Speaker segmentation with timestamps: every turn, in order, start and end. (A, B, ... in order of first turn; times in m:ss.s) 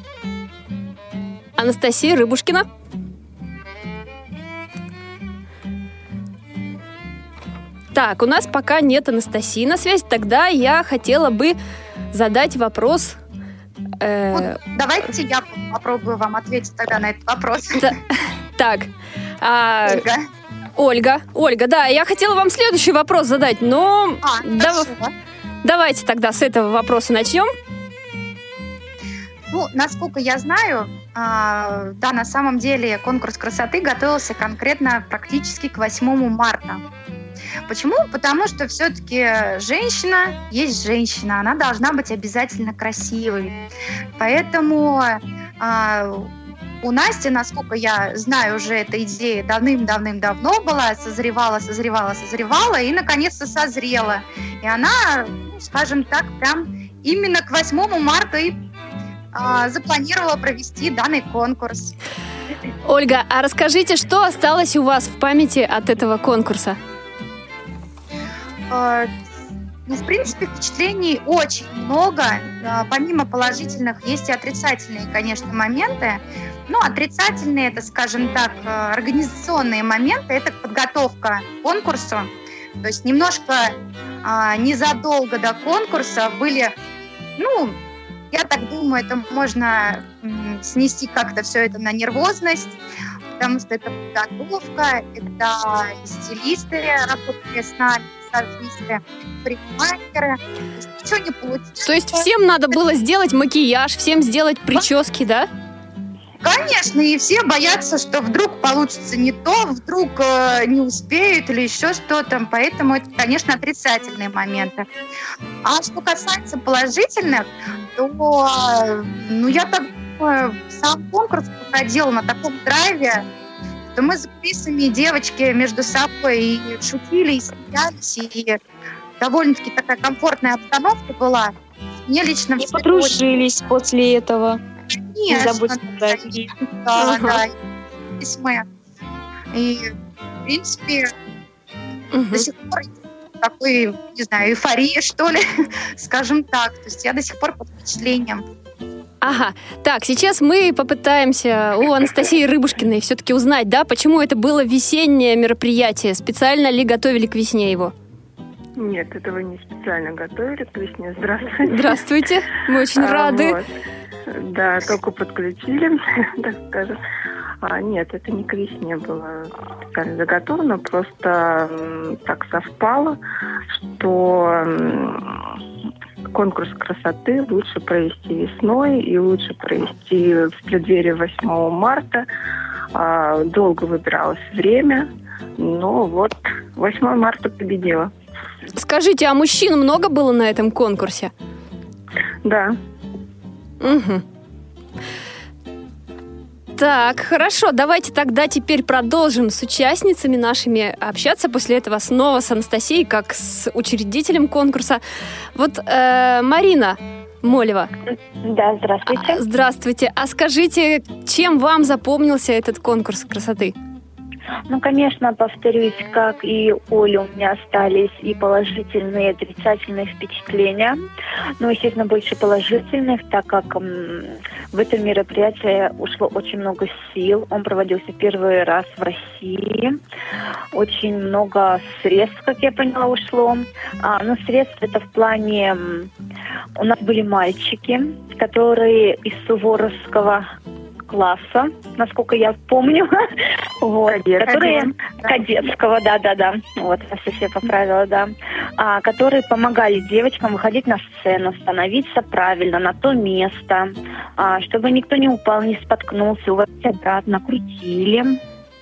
0:01.6-0:02.6 A
0:07.9-0:11.6 A
0:12.1-0:13.2 A
0:14.0-0:14.6 A
0:14.3-0:17.9 B
0:18.6-0:18.9 A
0:19.4-0:20.0 A
0:19.9-0:20.2 B
0:20.8-0:24.9 A
0:24.2-0:25.1 B
0:25.6-0:27.5 A
0:29.5-0:36.8 B
0:37.7-0:43.6 B
0:44.2-0:46.3 B
0:46.8-0:58.6 B
0:59.3-1:01.9 B
1:02.9-1:06.8 A
1:08.7-1:09.1 B
1:09.9-1:22.3 B
1:22.8-1:26.7 B
1:27.4-1:27.8 B
1:28.3-1:32.8 B
1:33.4-1:42.2 B
1:41.8-1:45.5 A
1:46.4-1:54.8 B
1:55.6-1:57.4 B
1:58.0-2:03.2 B
2:03.9-2:08.6 B
2:09.2-2:11.5 B
2:12.0-2:13.2 B
2:12.6-2:14.6 C
2:15.0-2:17.5 B
2:15.3-2:16.5 C
2:17.0-2:17.4 A
2:18.2-2:18.6 B
2:19.5-2:19.9 B
2:20.4-2:21.1 B
2:22.1-2:22.5 A
2:22.3-2:25.4 B
2:26.0-2:28.4 B
2:29.2-2:37.9 A
2:38.8-2:42.0 D
2:41.6-2:43.6 A
2:43.0-2:43.6 D
2:44.3-2:47.0 D
2:47.6-2:53.2 D
2:53.9-2:55.6 D
2:56.3-3:02.3 D
3:02.9-3:08.1 D
3:08.8-3:11.3 A
3:12.4-3:12.8 D
3:13.8-3:14.2 A
3:16.8-3:25.0 A
3:25.5-3:27.9 A
3:28.4-3:29.4 E
3:29.1-3:33.7 A
3:34.7-3:41.0 E
3:41.6-3:50.0 E
3:50.7-3:56.1 E
3:56.8-4:00.5 E
4:01.1-4:18.4 E
4:04.0-4:04.9 D
4:04.6-4:05.3 B